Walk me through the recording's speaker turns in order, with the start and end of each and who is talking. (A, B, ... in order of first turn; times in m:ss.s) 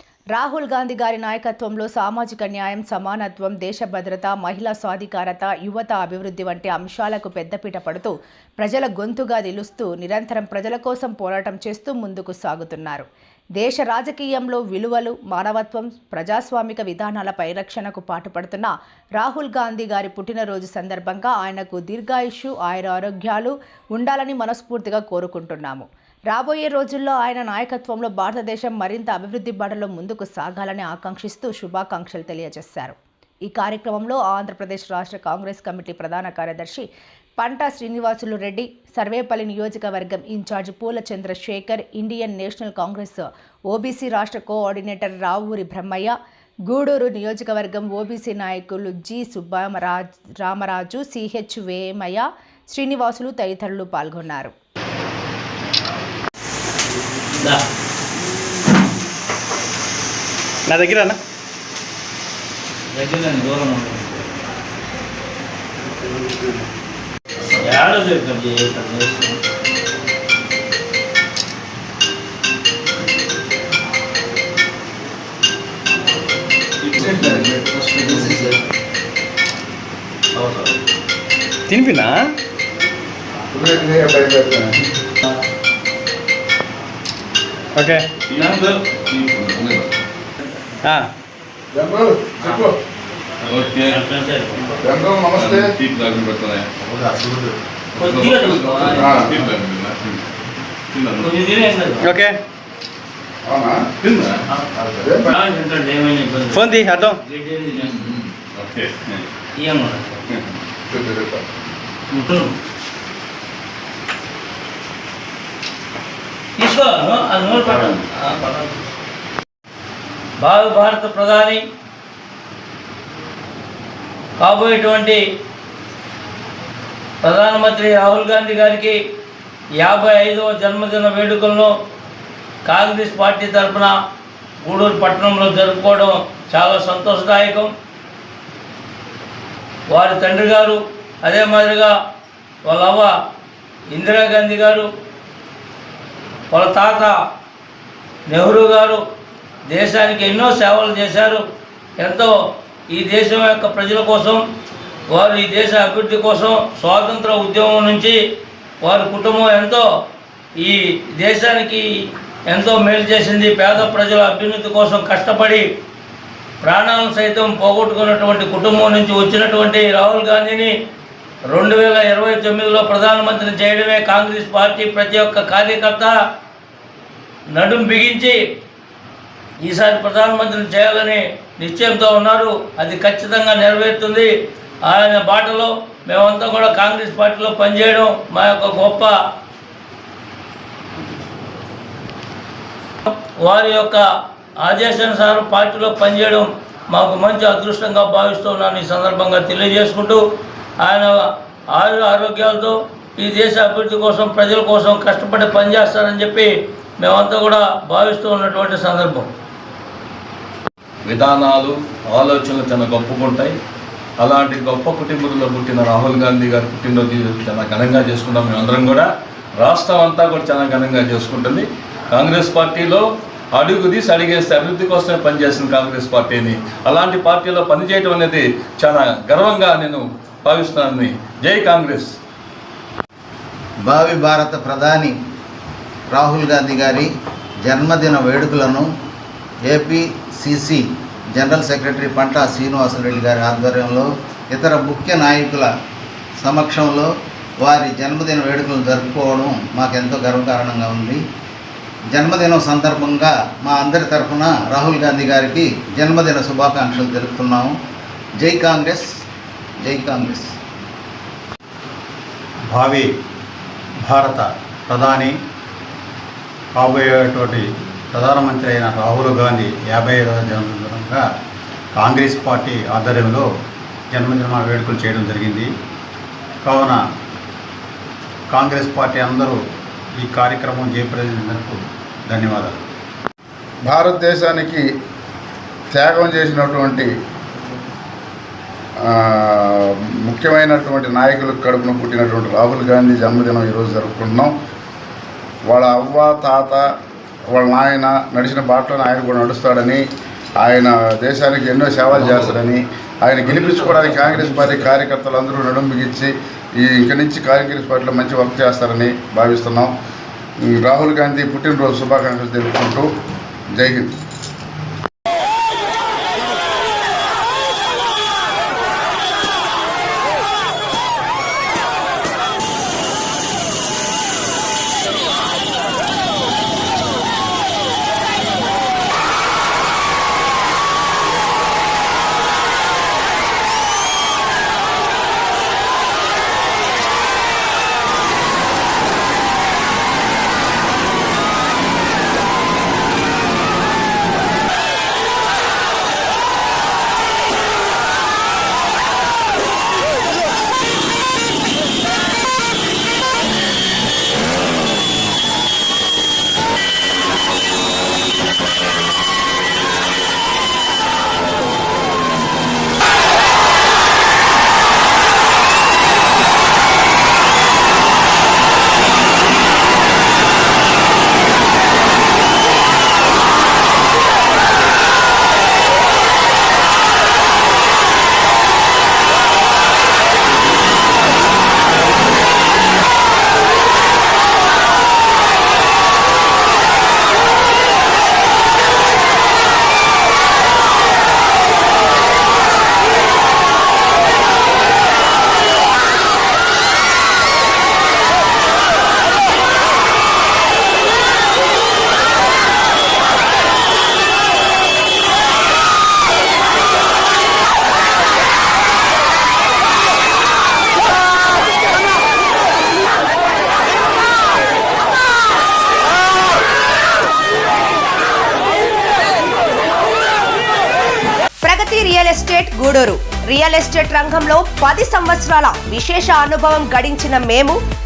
0:00.3-0:13.1 A
0:13.6-0:36.9 A
0:37.4-0:46.2 A
0:46.7-0:54.5 A
0:57.4-0:57.6 B
1:00.7-1:01.2 C
1:02.9-1:04.2 B
1:07.6-1:09.4 B
1:17.0-1:17.4 D
1:21.7-1:22.4 C
1:23.5-1:24.8 D
1:27.8-1:28.1 C
1:28.4-1:28.8 B
1:29.3-1:29.8 E
1:30.8-1:31.1 C
1:31.7-1:32.7 D
1:33.5-1:33.9 E
1:33.9-1:34.5 B
1:34.8-1:35.7 D
1:35.8-1:36.6 E
1:37.1-1:37.3 F
1:38.0-1:39.2 B
1:38.6-1:40.0 E
1:38.9-1:39.4 D
1:41.2-1:42.1 B
1:42.0-1:42.4 C
1:43.5-1:43.9 D
1:44.8-1:45.3 D
1:45.3-1:48.2 B
1:46.5-1:47.2 C
1:49.6-1:50.0 B
1:50.9-1:51.4 D
1:52.1-1:52.5 B
1:56.6-1:58.8 B
2:00.4-2:01.6 B
2:04.4-2:05.2 B
2:07.2-2:09.0 B
2:09.8-2:11.7 B
2:12.6-2:14.0 B
2:14.6-2:17.7 B
2:19.9-2:22.0 B
2:22.6-2:23.1 B
2:23.9-2:24.9 B
2:26.5-2:27.2 B
2:28.3-2:29.0 B
2:29.7-2:31.4 B
2:32.0-2:32.3 B
2:32.9-2:34.4 B
2:35.1-2:38.2 B
2:38.8-2:39.9 B
2:40.6-2:41.9 B
2:42.5-2:45.7 B
2:46.6-2:50.7 B
2:51.5-2:56.2 B
2:57.5-2:58.4 B
2:59.6-3:04.3 B
3:04.8-3:09.2 B
3:13.1-3:14.0 B
3:14.6-3:20.2 B
3:20.8-3:29.3 B
3:31.1-3:33.6 E
3:34.2-3:39.1 E
3:39.6-3:52.1 E
3:53.8-3:55.2 G
3:56.1-3:57.1 G
3:57.6-3:58.9 G
3:59.7-4:00.8 G
4:01.4-4:05.7 G
4:06.4-4:07.1 G
4:07.6-4:11.2 G
4:12.1-4:17.7 G
4:18.4-4:19.1 G
4:19.8-4:20.5 G
4:22.7-4:23.1 F
4:24.0-4:25.3 F
4:26.8-4:31.2 F
4:32.0-4:33.5 F
4:34.1-4:35.7 F
4:36.6-4:37.0 F
4:38.5-4:39.6 F
4:40.2-4:42.8 F
4:43.8-4:44.8 D
4:45.9-4:47.1 D
4:49.0-4:54.5 D
4:55.7-4:56.8 D
4:57.5-5:00.0 D
5:00.6-5:09.9 D
5:10.6-5:13.1 D
5:13.7-5:14.1 D
7:01.7-7:07.8 H
7:07.0-7:07.4 A